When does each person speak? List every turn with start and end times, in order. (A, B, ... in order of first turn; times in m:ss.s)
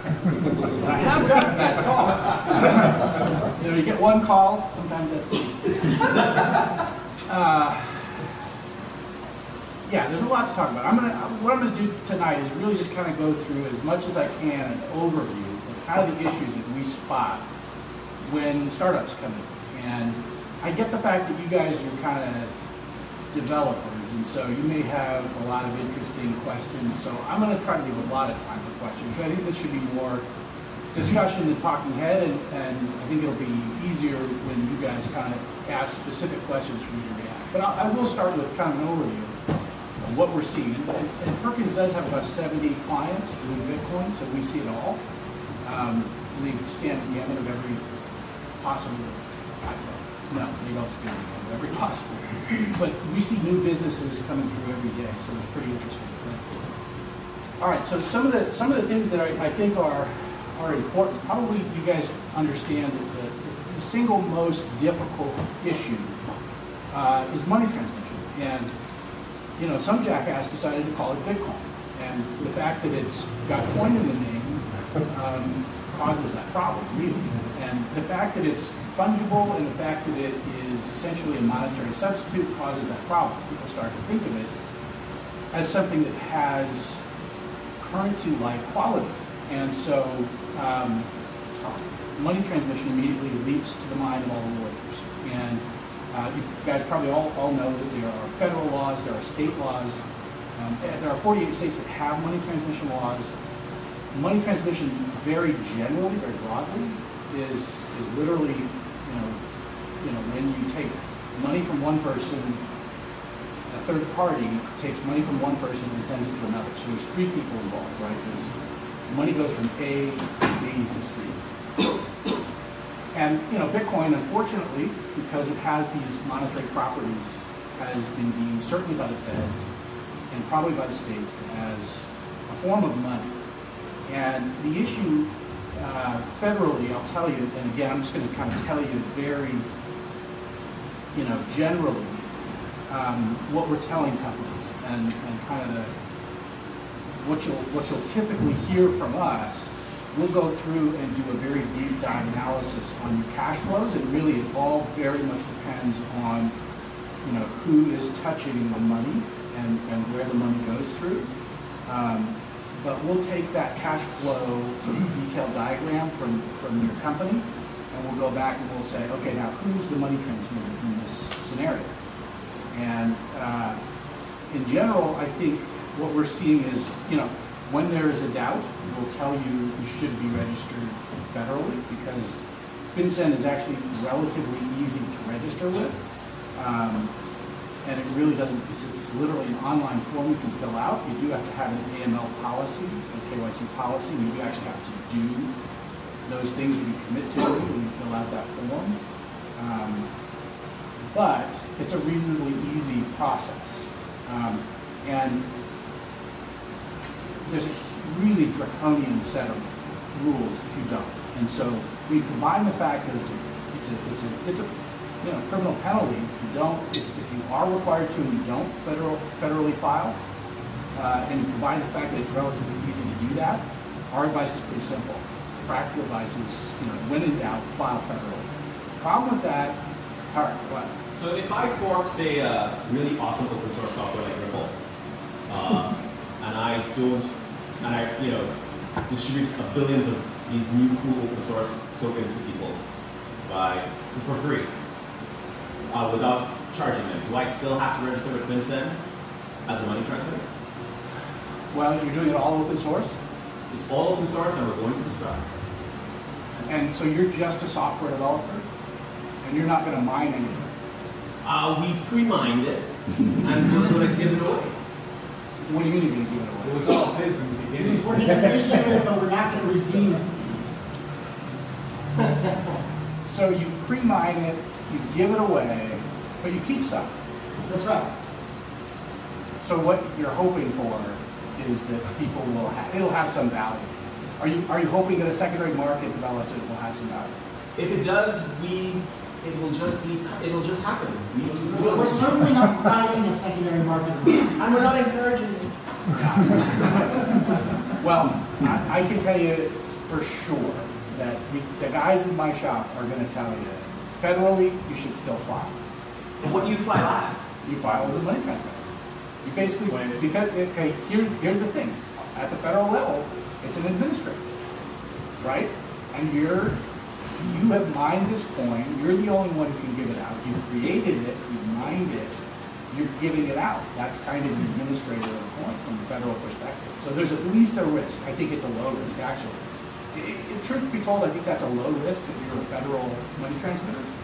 0:00.7-0:06.1 A
0:07.3-0:08.2 A
0:09.9-0:17.4 A
0:18.2-0:22.5 A
0:23.3-0:30.2 A
0:30.9-0:39.3 A
0:40.0-0:45.0 A
0:45.6-0:47.8 A
0:48.6-0:56.4 A
0:57.6-1:06.2 A
1:06.9-1:08.7 A
1:09.6-1:24.5 A
1:25.5-1:27.0 A
1:27.8-1:31.1 A
1:32.2-1:40.0 A
1:40.6-1:43.3 A
1:44.1-1:49.4 A
1:50.0-1:52.6 A
1:53.7-1:58.5 A
1:59.1-2:01.4 A
2:03.1-2:09.7 A
2:10.3-2:13.3 A
2:14.1-2:19.7 A
2:21.1-2:22.2 A
2:22.9-2:25.9 A
2:27.2-2:36.5 A
2:37.2-2:41.3 A
2:41.9-2:51.9 A
2:52.7-2:53.8 A
2:54.5-3:02.4 A
3:02.9-3:06.0 A
3:06.6-3:07.1 A
3:07.8-3:15.5 A
3:16.3-3:19.0 A
3:19.6-3:20.1 A
3:21.1-3:25.4 A
3:27.4-3:34.7 A
3:35.2-3:40.2 A
3:40.9-3:48.5 A
3:49.0-3:50.9 A
3:51.1-3:54.8 B
3:55.5-3:58.5 B
3:59.1-4:02.8 B
4:03.4-4:04.7 B
4:05.9-4:09.0 B
4:09.6-4:10.5 B
4:11.7-4:13.2 A
4:13.7-4:15.5 B
4:16.7-4:18.6 A
4:19.4-4:20.6 A
4:21.4-4:24.8 B
4:25.6-4:26.8 A
4:26.6-4:28.6 B
4:27.8-4:30.3 C
4:33.2-4:37.1 A
4:37.7-4:38.1 C
4:39.6-4:47.3 A
4:47.8-4:52.5 B
4:51.7-4:54.5 C
4:54.6-4:55.7 B
4:56.1-4:57.1 A
4:58.0-5:05.7 A
5:06.4-5:07.5 B
5:07.6-5:08.8 A
5:09.4-5:14.4 A
5:09.9-5:10.2 B
5:15.4-5:16.8 A
5:17.4-5:22.4 A
5:22.9-5:29.6 A
5:30.1-5:34.1 A